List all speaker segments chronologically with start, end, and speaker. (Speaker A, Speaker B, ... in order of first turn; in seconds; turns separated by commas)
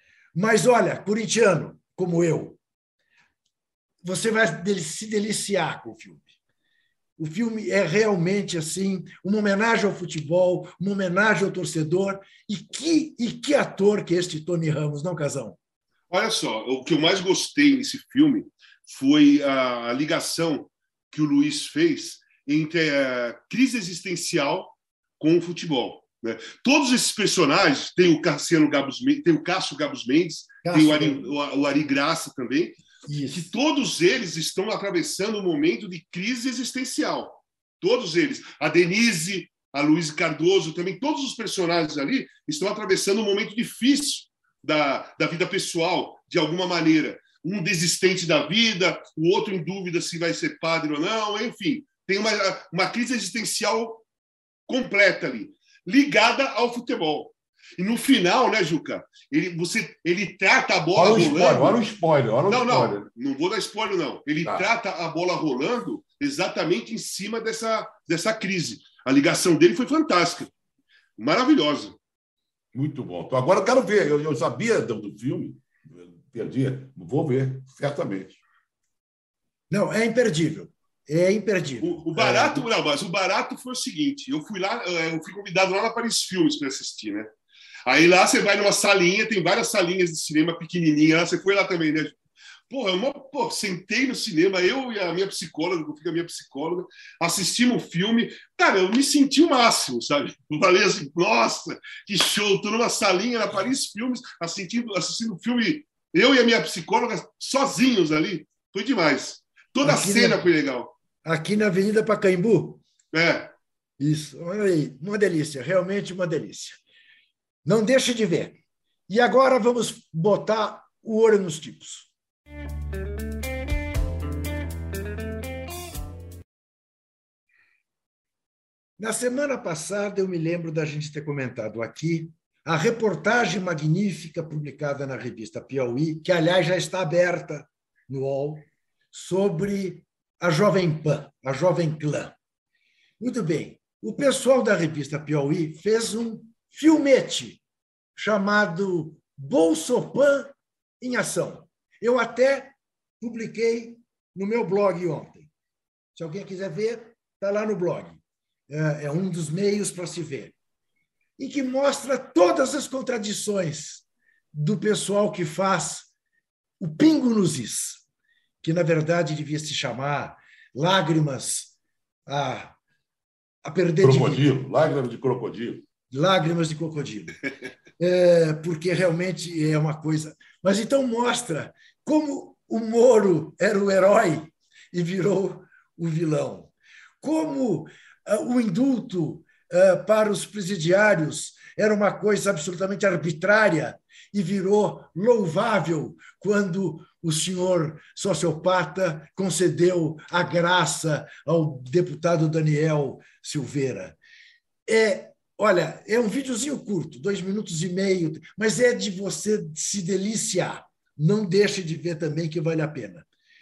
Speaker A: 0.3-2.6, Speaker A: 4.0-6.3, Speaker A: 7.2-15.6, Speaker B: 16.1-32.8, Speaker A: 30.6-31.3, Speaker A: 33.1-33.5, Speaker B: 33.3-54.0, Speaker B: 54.7-61.8, Speaker C: 61.0-63.1, Speaker B: 62.5-70.5, Speaker B: 71.2-72.0, Speaker C: 72.7-78.4, Speaker A: 79.7-82.7, Speaker B: 81.8-87.3, Speaker B: 87.8-92.1, Speaker B: 92.7-110.9, Speaker A: 109.8-110.4, Speaker A: 111.2-112.8, Speaker B: 113.1-113.5, Speaker A: 114.0-116.8, Speaker A: 117.7-122.1, Speaker A: 129.0-142.3, Speaker A: 143.2-147.6, Speaker A: 148.2-155.5, Speaker A: 156.2-160.5, Speaker A: 161.4-166.1, Speaker A: 166.8-168.0, Speaker A: 168.6-171.7, Speaker A: 172.3-172.8, Speaker A: 173.6-174.5, Speaker C: 174.0-175.8, Speaker A: 176.1-177.4, Speaker A: 178.0-204.2, Speaker A: 204.9-213.3